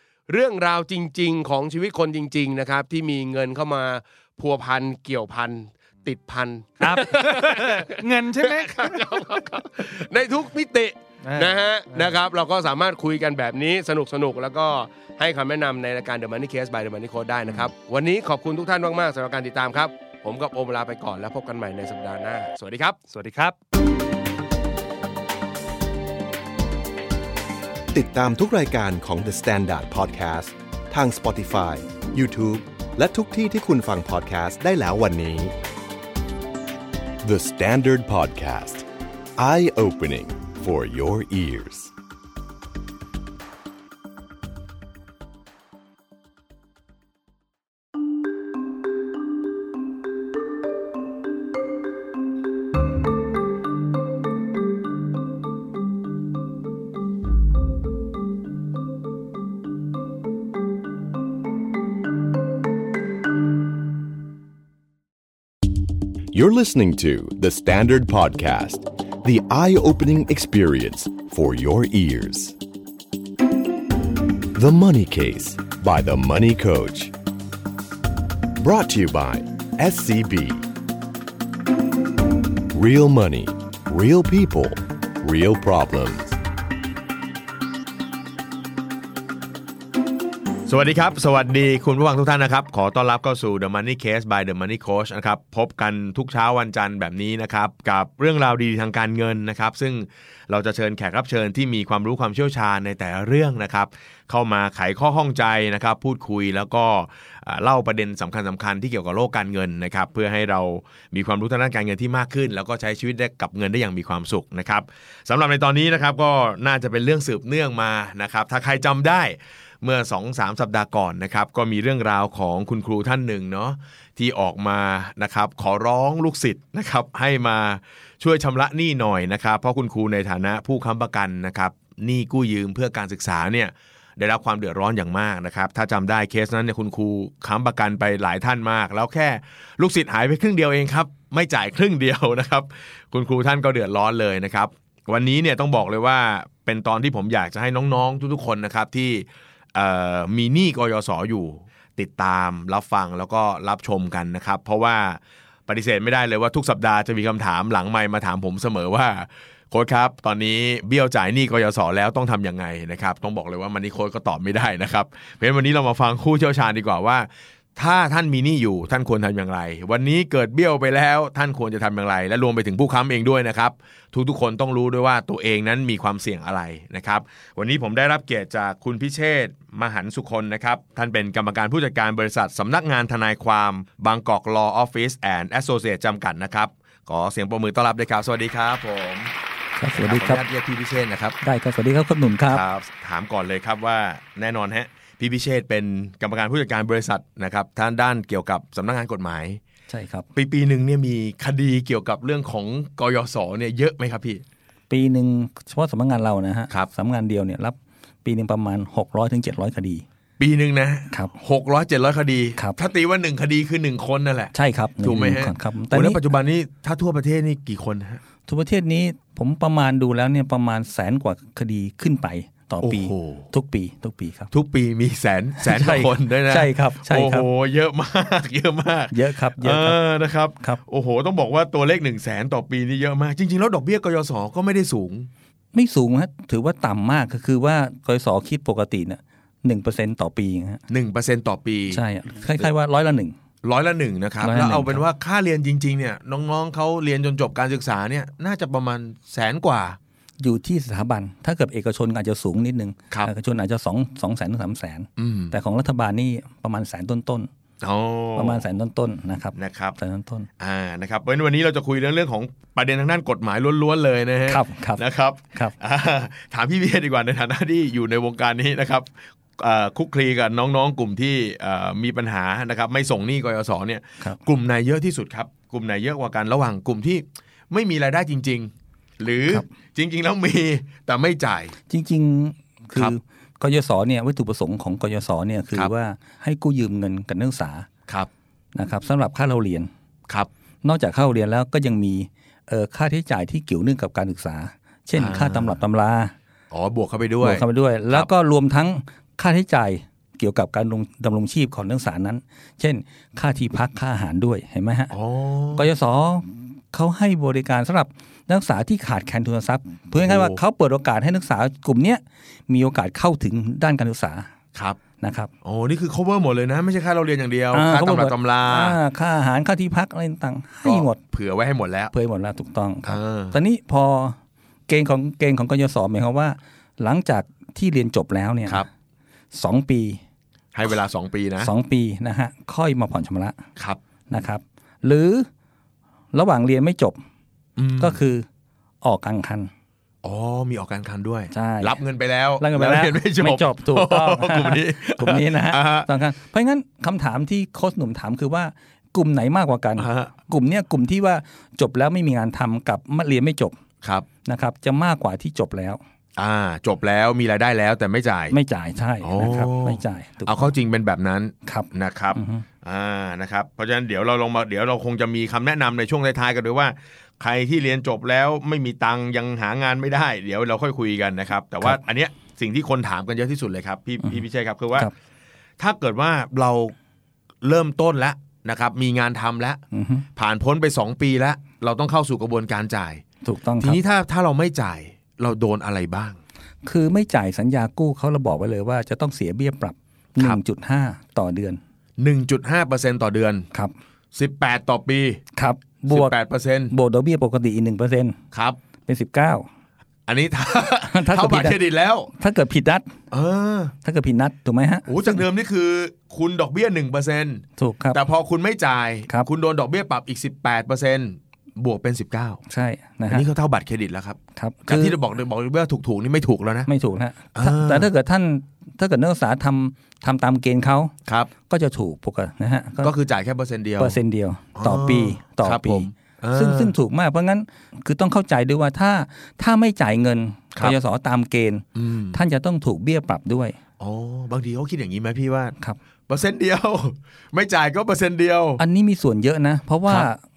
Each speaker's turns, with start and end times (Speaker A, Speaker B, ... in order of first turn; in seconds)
Speaker A: 0.3-23.0
Speaker B: 6.8-9.1, 11.2-12.2, 23.1-23.6
Speaker C: 27.9-35.5, 37.2-41.9, 66.3-72.6, 74.5-77.1, 78.5-80.7, 82.7-86.4
Speaker D: 90.7-189.3, 189.9-191.3, 192.5-199.6, 200.3-204.4, 210.4-218.2, 222.8-223.5, 224.5-235.3, 240.9-242.0, 243.6-250.0, 255.2-255.5, 257.8-258.6, 259.6-260.0, 260.6-281.7, 295.2-295.8, 296.7-298.3, 305.1-305.8, 310.2-310.6, 314.7-315.0, 315.6-319.0, 320.8-322.1, 323.1-323.6, 330.7-331.7, 337.8-338.2, 340.2-346.1, 350.0-350.4, 354.0-354.3, 356.4-358.5, 359.2-375.1, 375.8-376.9, 377.6-379.8, 380.4-383.2, 383.8-386.4, 392.2-393.7, 394.3-395.4, 396.1-396.9, 398.5-398.8, 400.3-402.3, 403.3-403.9, 405.1-412.6, 413.3-416.9, 417.5-418.1, 421.3-421.5, 423.0-424.2, 424.8-426.9, 431.9-432.4, 434.0-435.7, 436.3-438.8
Speaker E: 189.8-190.4, 191.4-192.6, 199.9-200.3, 204.9-210.0, 212.6-212.8, 214.5-216.2, 218.4-224.5, 225.6-227.5, 229.1-230.0, 235.7-240.8, 241.9-243.3, 244.4-245.0, 250.4-257.5, 258.4-260.5, 264.5-265.7, 281.8-287.9, 288.7-289.9, 290.8-296.3, 297.4-305.1, 305.8-314.5, 315.2-315.5, 317.7-321.2, 322.1-324.4, 324.9-328.9, 329.5-330.2, 331.6-333.6, 334.3-335.5, 336.3-337.2, 338.0-338.4, 339.0-339.7, 341.5-342.0, 342.6-353.8, 354.4-356.0, 358.5-360.7, 361.6-362.6, 379.9-380.2, 383.4-384.0, 386.8-391.8, 395.5-396.3, 396.9-398.4, 399.1-399.7, 401.1-401.8, 402.4-403.1, 404.0-405.4, 407.8-408.2, 412.7-413.5, 414.5-415.2, 416.9-423.1, 424.0-433.8, 438.8-440.4